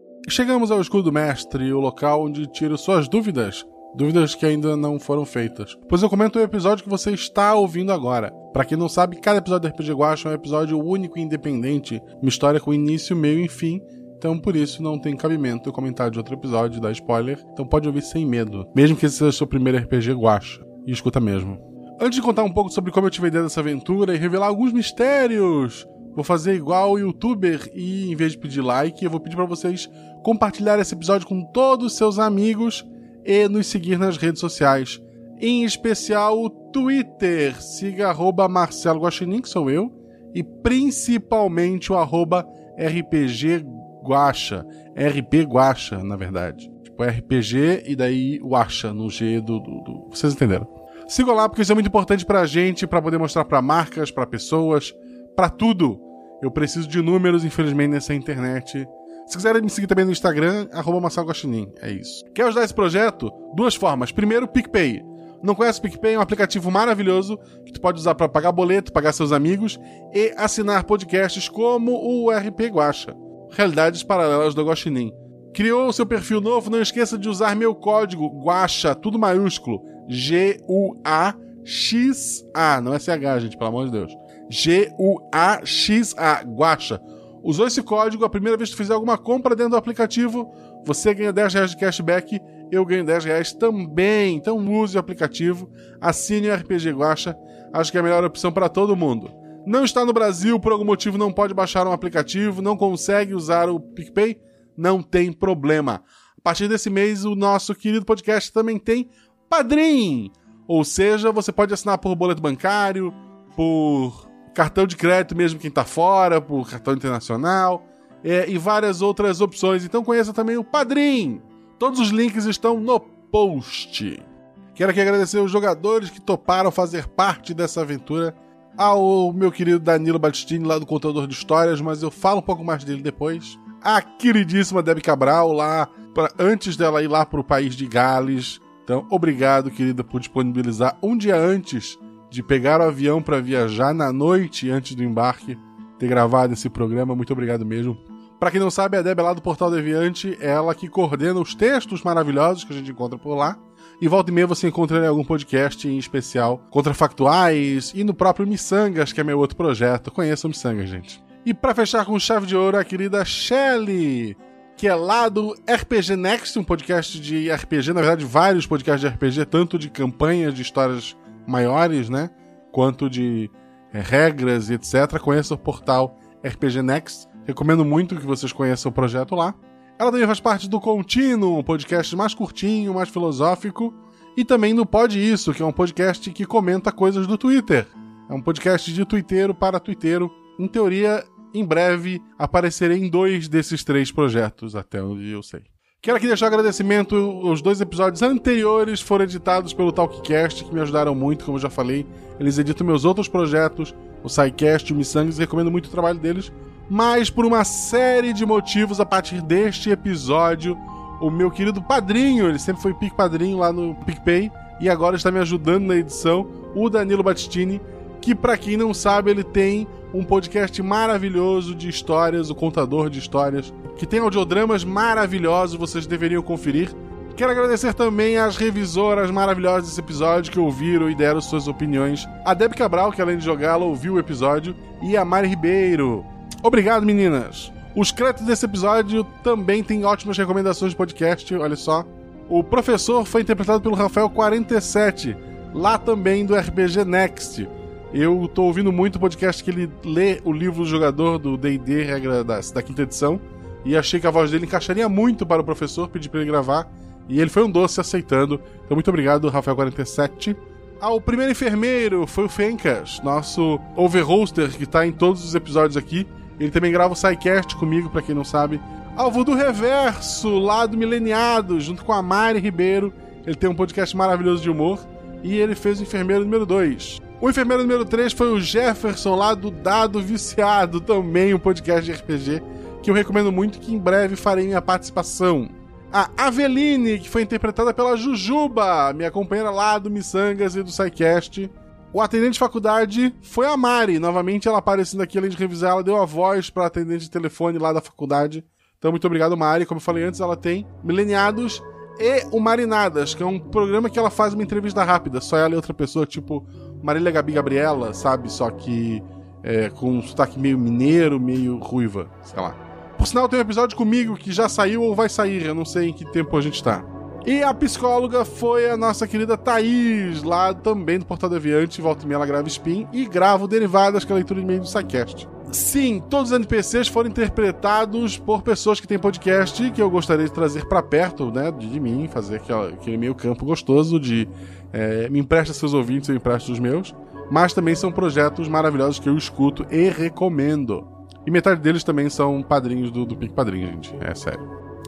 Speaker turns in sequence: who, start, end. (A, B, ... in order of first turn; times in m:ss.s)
0:00.2-2:04.2 A
2:04.8-5:44.6 A